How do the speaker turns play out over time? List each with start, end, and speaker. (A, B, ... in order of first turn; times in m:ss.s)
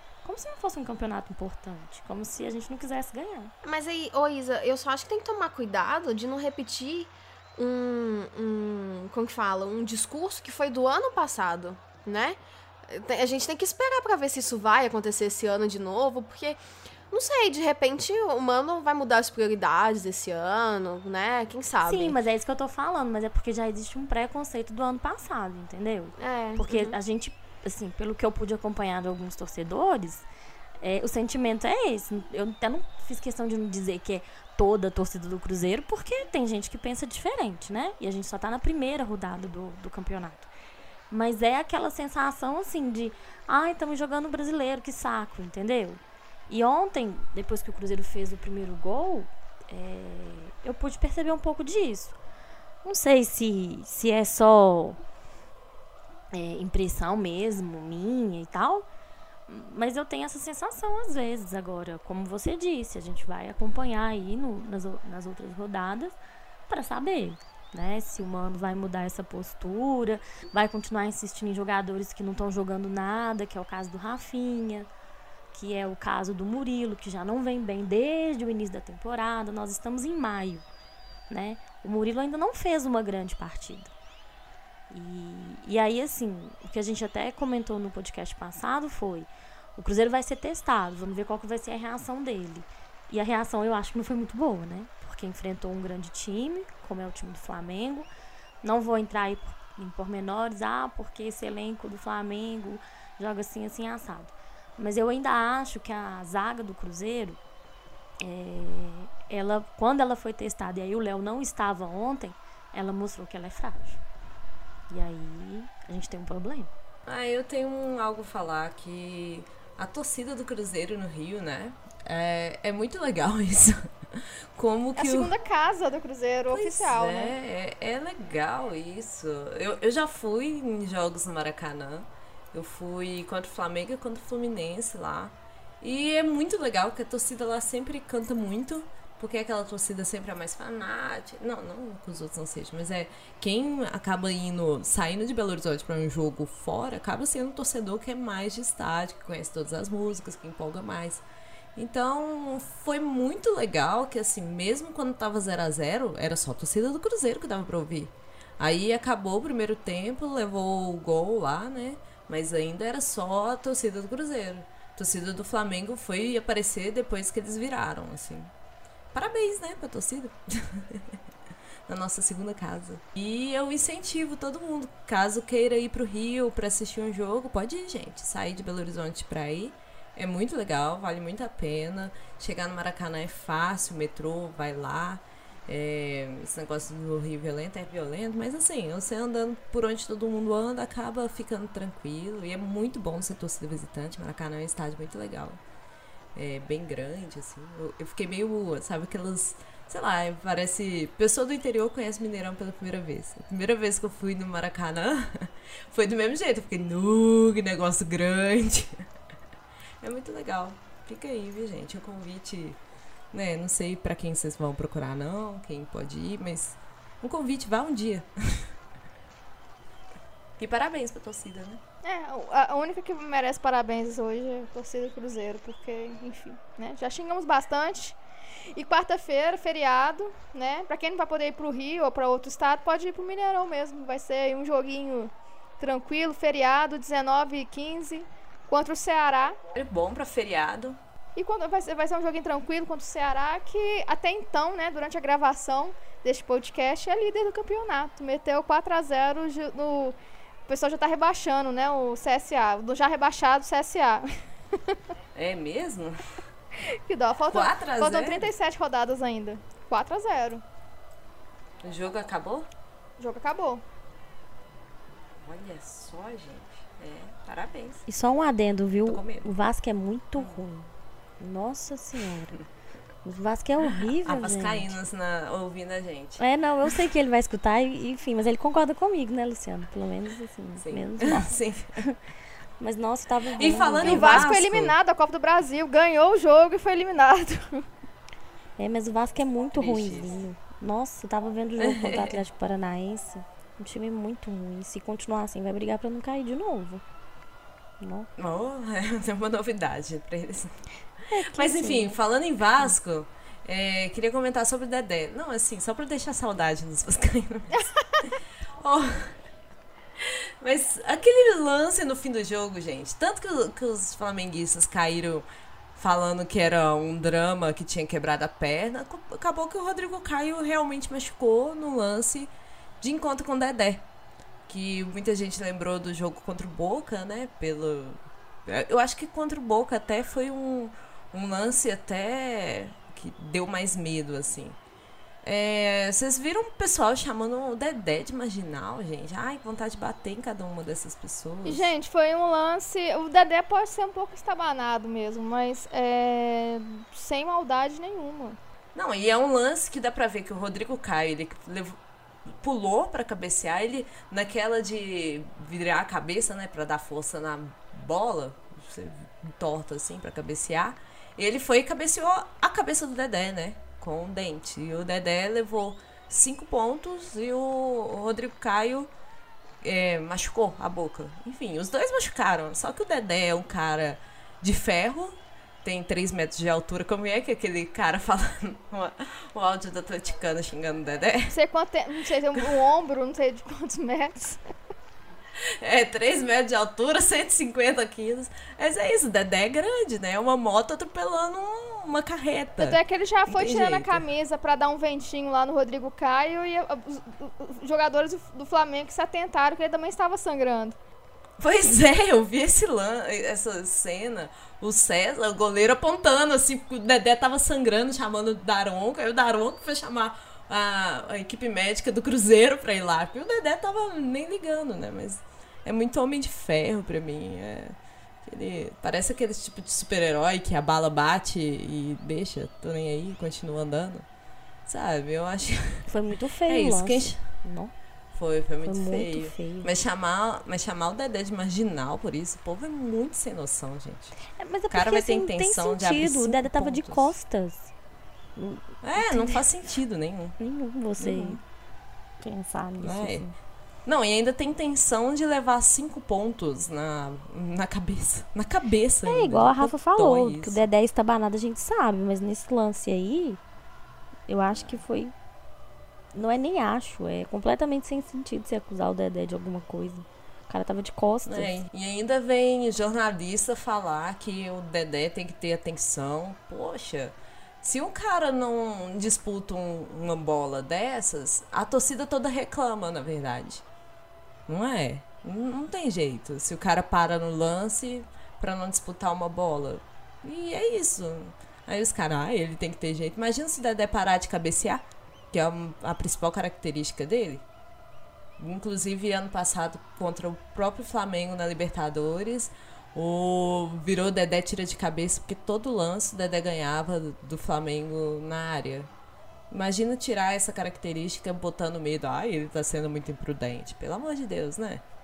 0:00.2-0:03.5 A
0:03.6-0:22.2 B
0:21.8-0:30.3 A
0:26.2-0:27.0 B
0:30.8-0:40.5 A
0:41.1-0:52.2 A
0:52.8-0:55.0 A
0:56.3-0:58.9 A
0:59.5-1:06.2 A
1:06.7-1:14.9 A
1:15.5-1:20.6 A
1:21.3-1:23.9 A
1:24.9-1:38.1 A
1:38.6-1:47.4 A
1:48.2-1:54.0 A
1:54.9-1:56.7 A
1:57.1-2:05.3 C
2:05.0-2:07.4 D
2:06.5-2:31.2 C
2:31.8-2:48.5 C
2:49.1-2:51.2 C
2:51.9-3:15.6 C
3:16.4-3:29.0 C
3:30.0-3:32.8 C
3:33.3-3:38.7 C
3:40.6-3:41.8 C
3:42.0-3:48.2 D
3:48.7-3:59.6 D
3:59.7-4:01.0 C
4:01.4-4:10.2 D
4:10.7-4:15.0 D
4:15.4-4:16.2 C
4:17.1-4:20.6 D
4:17.5-4:18.5 C
4:21.8-4:22.7 C
4:23.2-4:23.8 D
4:25.4-4:28.1 C
4:28.1-4:32.6 A
4:29.1-4:29.5 C
4:33.2-4:35.0 A
4:34.2-4:36.9 C
4:36.4-4:42.2 A
4:40.8-4:42.0 C
4:42.8-4:44.5 A
4:43.6-4:45.0 C
4:44.0-4:47.8 D
4:48.8-4:57.0 A
4:49.8-4:50.3 C
4:51.8-4:52.4 C
4:58.0-4:58.3 A
4:58.4-5:00.8 C
5:01.3-5:02.2 A
5:01.4-5:09.4 C
5:10.2-5:15.4 C
5:16.0-5:22.5 C
5:23.0-5:24.0 C
5:24.7-5:34.8 C
5:35.4-5:41.9 C
5:41.6-5:48.6 D
5:48.9-5:52.0 C
5:52.5-6:09.1 C
6:09.8-6:21.6 C
6:21.5-6:24.6 D
6:25.7-6:34.2 C
6:32.8-6:41.0 D
6:41.6-6:58.0 C
6:58.5-7:04.3 C
7:04.9-7:06.1 C
7:06.1-7:07.9 A
7:06.7-7:07.5 C
7:08.4-7:14.4 C
7:08.8-7:09.9 A
7:14.5-7:17.9 A
7:14.9-7:17.3 C
7:18.6-7:19.6 A
7:19.0-7:20.6 C
7:20.6-7:21.6 A
7:21.2-7:21.6 C
7:22.4-7:23.6 A
7:23.0-7:23.5 C
7:24.1-7:30.9 C
7:29.3-7:33.6 A
7:34.5-7:35.3 A
7:34.7-7:35.0 C
7:36.3-7:41.8 A
7:41.5-7:53.8 C
7:54.7-8:07.6 C
8:08.6-8:19.1 C
8:19.7-8:25.0 C